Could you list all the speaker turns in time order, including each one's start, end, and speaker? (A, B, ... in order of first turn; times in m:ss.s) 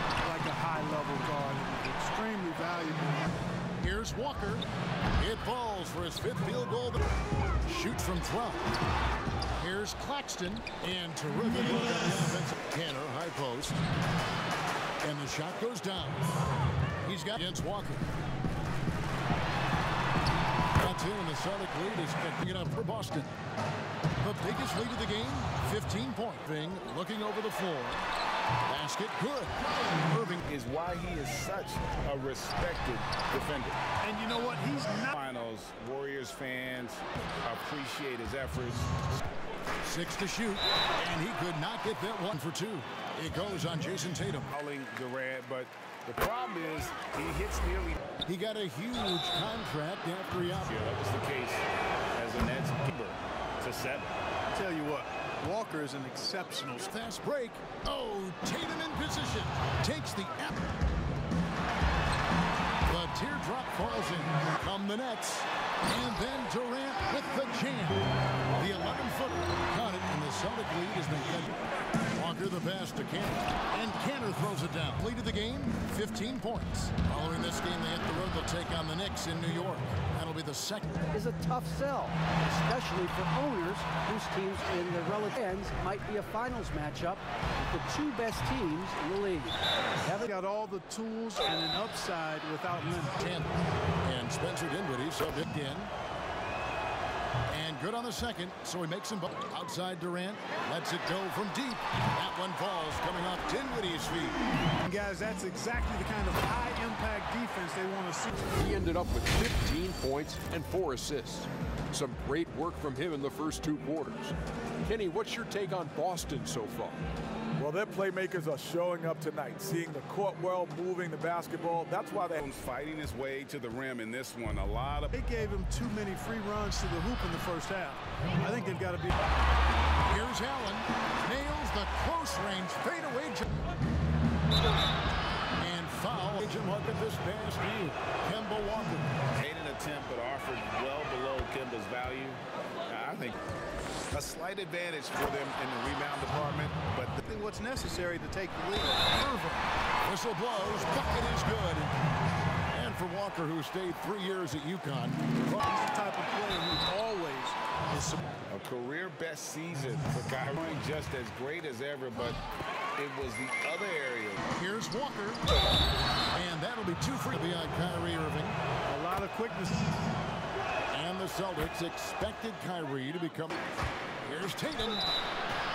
0:00.2-0:03.3 A
0:03.8-0:07.0 B
0:07.6-0:08.6 B
0:09.6-0:13.8 B
0:15.0-0:16.2 B
0:17.0-0:18.0 B
0:20.7-0:23.3 B
0:24.2-0:28.0 B
0:28.7-0:30.4 B
0:30.5-0:33.8 C
0:34.0-0:35.1 A
0:35.1-0:38.9 C
0:39.8-0:44.5 B
0:44.5-0:48.0 C
0:48.2-0:50.7 B
0:50.6-0:54.1 C
0:54.5-0:56.9 A
0:56.8-1:00.7 B
1:02.8-1:11.6 B
1:12.1-1:21.0 B
1:21.1-1:30.2 D
1:30.2-1:33.2 A
1:33.2-1:33.5 B
1:34.0-1:35.9 B
1:37.5-1:44.4 B
1:44.8-1:48.5 A
1:48.5-1:54.3 E
1:54.9-1:56.9 E
1:55.8-1:56.8 F
1:57.6-2:01.4 E
1:57.8-2:02.2 F
2:02.4-2:05.1 C
2:05.1-2:09.1 A
2:10.0-2:13.5 B
2:15.6-2:19.1 B
2:19.3-2:23.4 C
2:24.1-2:27.2 C
2:27.2-2:29.5 A
2:30.0-2:31.9 B
2:32.7-2:35.6 B
2:35.6-2:38.2 A
2:38.5-2:42.4 C
2:43.0-2:44.5 C
2:44.5-2:45.4 B
2:46.3-2:48.6 B
2:48.9-2:49.8 A
2:50.9-2:53.6 B
2:54.2-2:55.0 B